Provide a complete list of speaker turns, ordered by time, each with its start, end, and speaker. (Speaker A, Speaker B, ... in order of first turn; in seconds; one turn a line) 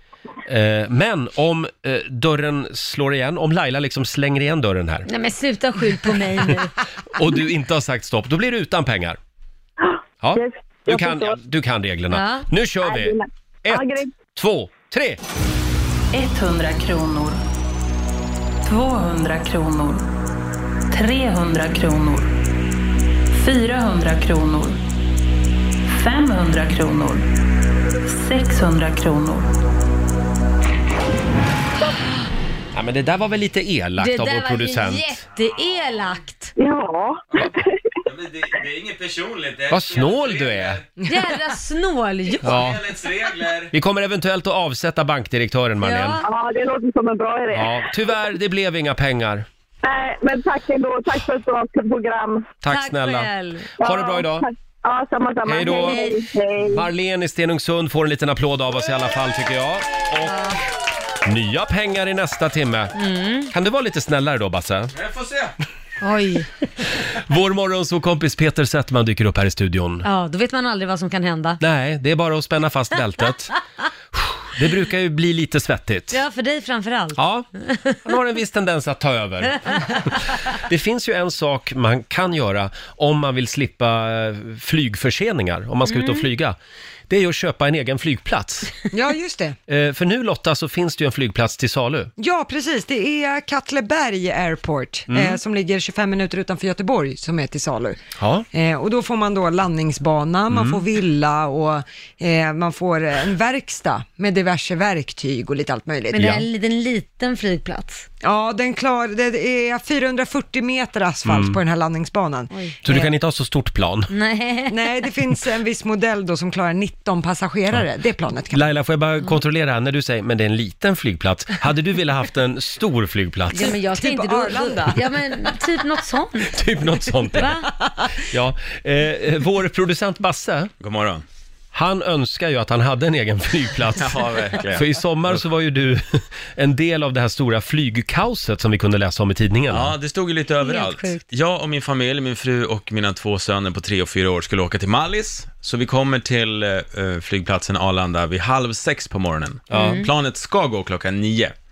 Speaker A: 0.5-5.1
Speaker B: 5.1-6.7
Speaker A: 7.1-9.2
Speaker C: 9.8-11.4
Speaker A: 10.2-15.2
Speaker B: 12.1-12.5
Speaker C: 12.8-14.1
Speaker D: 16.1-17.4
Speaker D: 18.6-20.1
Speaker D: 20.9-22.3
Speaker D: 23.3-24.8
Speaker D: 25.9-27.3
Speaker D: 28.0-29.5
Speaker A: 32.7-35.2
Speaker B: 34.0-36.5
Speaker C: 36.6-37.6
Speaker E: 38.0-40.9
Speaker A: 39.7-40.8
Speaker B: 41.0-42.7
Speaker E: 42.4-43.7
Speaker A: 42.4-42.8
Speaker A: 43.7-46.2
Speaker B: 45.8-46.2
Speaker C: 46.2-47.8
Speaker A: 47.5-49.5
Speaker C: 49.8-52.5
Speaker A: 52.6-54.5
Speaker B: 52.7-53.7
Speaker C: 53.8-56.8
Speaker A: 55.5-56.0
Speaker B: 55.6-56.2
Speaker A: 56.7-60.5
Speaker B: 60.2-60.6
Speaker A: 61.2-62.9
Speaker B: 63.0-63.5
Speaker A: 63.5-64.9
Speaker E: 64.9-65.5
Speaker B: 66.0-66.5
Speaker A: 67.0-70.1
Speaker B: 70.0-71.6
Speaker A: 71.6-73.5
Speaker A: 74.1-76.2
Speaker B: 76.1-78.0
Speaker A: 77.2-77.5
Speaker A: 78.0-86.5
Speaker B: 85.8-86.3
Speaker A: 87.1-88.7
Speaker F: 88.9-89.6
Speaker A: 89.7-92.1
Speaker F: 92.2-98.0
Speaker A: 95.1-95.4
Speaker A: 98.2-98.5
Speaker F: 98.5-106.3
Speaker A: 100.5-100.8
Speaker B: 106.1-108.0
Speaker A: 106.2-106.5
Speaker F: 108.2-112.5
Speaker A: 111.2-111.6
Speaker B: 112.5-113.1
Speaker A: 112.8-114.1
Speaker B: 114.1-114.8
Speaker F: 114.7-118.6
Speaker A: 118.5-123.7
Speaker B: 123.5-126.6
Speaker F: 123.7-125.0
Speaker A: 126.5-127.6
Speaker B: 127.3-127.7
Speaker A: 128.2-130.7
Speaker E: 130.8-131.2
Speaker A: 131.7-139.9
Speaker E: 134.0-135.4
Speaker E: 139.7-151.5
Speaker B: 140.6-141.2
Speaker A: 149.7-150.0
Speaker B: 149.7-150.1